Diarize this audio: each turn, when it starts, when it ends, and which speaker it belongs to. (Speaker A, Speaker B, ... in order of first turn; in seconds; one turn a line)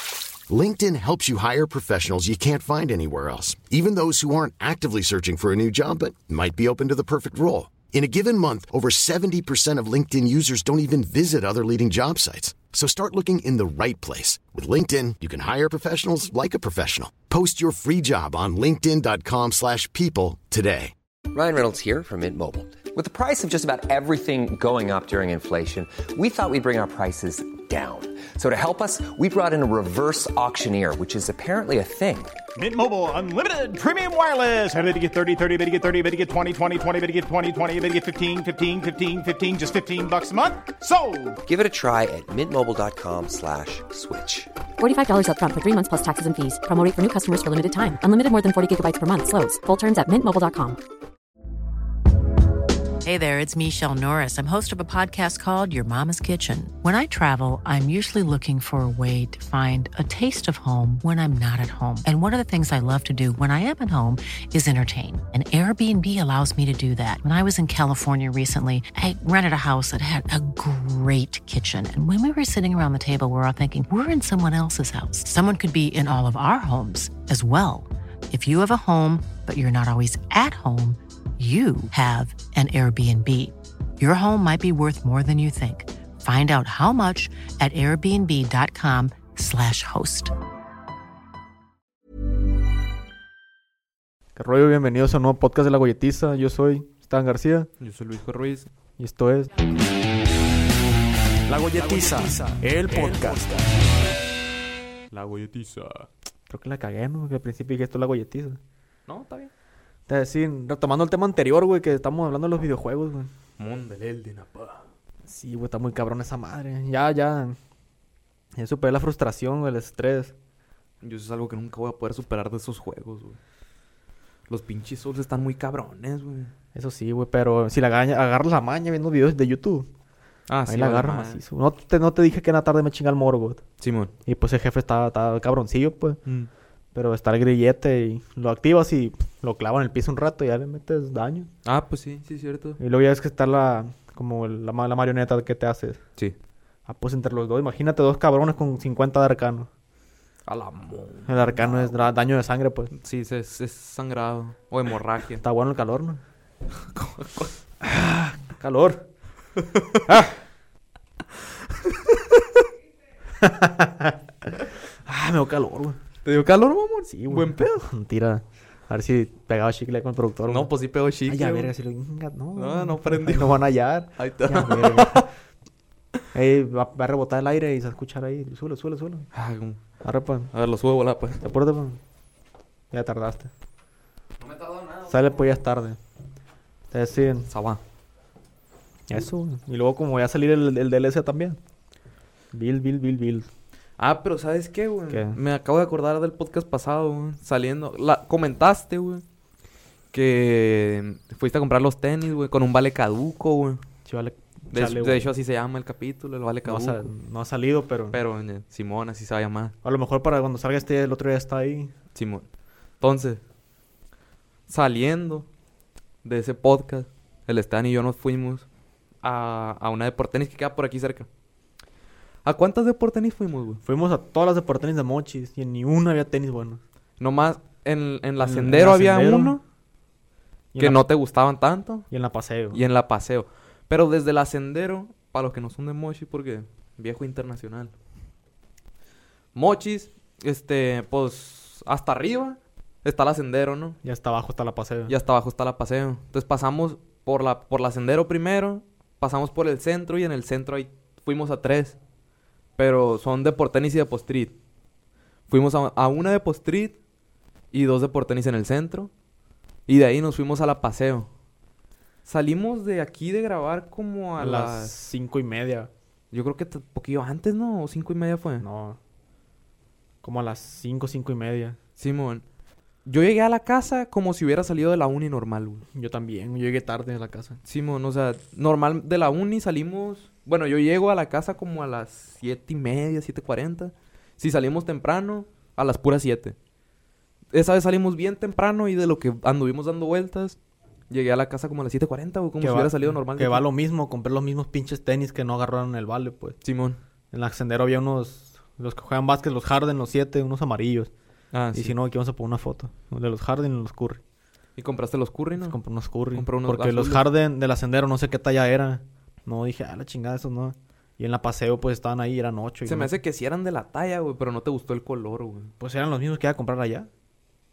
Speaker A: 0.5-20.9
Speaker B: 21.3-32.4
Speaker C: 32.5-41.4
Speaker B: 41.4-44.5
Speaker D: 44.8-50.8
Speaker E: 53.0-90.3
Speaker F: 94.3-97.7
Speaker G: 97.8-98.7
Speaker F: 99.0-99.5
Speaker F: 101.5-103.6
Speaker G: 101.7-103.6
Speaker G: 105.1-106.1
Speaker F: 106.5-108.6
Speaker G: 109.1-109.5
Speaker F: 110.1-113.3
Speaker G: 113.6-114.8
Speaker F: 115.2-117.6
Speaker F: 118.5-120.3
Speaker G: 121.0-123.4
Speaker G: 124.5-126.5
Speaker F: 126.7-129.9
Speaker G: 130.5-131.4
Speaker F: 130.7-133.6
Speaker G: 133.8-134.1
Speaker F: 134.2-136.2
Speaker F: 136.9-141.5
Speaker G: 141.6-142.8
Speaker F: 142.8-146.0
Speaker F: 146.9-149.7
Speaker G: 150.4-152.0
Speaker F: 151.2-152.9
Speaker G: 152.9-155.4
Speaker F: 155.4-156.2
Speaker G: 156.7-158.1
Speaker F: 158.5-159.0
Speaker G: 159.6-160.2
Speaker F: 160.1-160.4
Speaker G: 161.6-162.6
Speaker F: 163.4-166.0
Speaker G: 166.2-167.9
Speaker F: 167.1-170.7
Speaker G: 170.4-171.7
Speaker F: 171.3-175.3
Speaker G: 172.6-175.3
Speaker F: 176.3-179.3
Speaker G: 179.3-179.8
Speaker F: 180.0-180.5
Speaker G: 180.5-181.4
Speaker F: 181.4-182.0
Speaker F: 182.9-183.5
Speaker G: 184.4-185.0
Speaker F: 185.1-186.0
Speaker F: 186.9-187.5
Speaker G: 187.5-187.8
Speaker F: 189.1-191.6
Speaker F: 192.5-193.5
Speaker G: 194.0-199.2
Speaker F: 195.1-195.4
Speaker G: 200.1-203.8
Speaker F: 204.1-205.3
Speaker G: 204.7-207.1
Speaker F: 206.6-208.2
Speaker G: 208.1-209.7
Speaker F: 209.8-211.9
Speaker G: 212.1-212.5
Speaker G: 213.0-213.4
Speaker G: 214.7-215.5
Speaker G: 216.2-218.7
Speaker G: 219.2-221.3
Speaker G: 222.4-223.8
Speaker F: 223.8-226.8
Speaker G: 227.2-229.6
Speaker F: 228.4-229.6
Speaker F: 230.7-231.0
Speaker G: 230.8-232.1
Speaker F: 232.1-232.8
Speaker G: 232.7-237.9
Speaker G: 239.5-244.0
Speaker F: 244.0-245.1
Speaker G: 245.1-252.0
Speaker G: 252.8-254.5
Speaker G: 255.5-257.0
Speaker G: 257.7-259.1
Speaker G: 259.9-261.3
Speaker G: 262.2-264.9
Speaker F: 264.4-265.9
Speaker G: 266.3-268.6
Speaker F: 268.6-269.0
Speaker F: 270.2-271.8
Speaker G: 272.0-272.4
Speaker G: 273.0-275.8
Speaker F: 275.9-277.6
Speaker G: 277.6-286.6
Speaker G: 287.5-290.6
Speaker G: 291.1-293.6
Speaker F: 292.6-296.6
Speaker G: 296.6-297.0
Speaker F: 297.3-301.1
Speaker G: 301.5-301.9
Speaker F: 301.7-304.2
Speaker G: 304.8-305.8
Speaker F: 305.6-313.1
Speaker G: 306.3-307.3
Speaker G: 312.8-315.7
Speaker F: 315.8-317.1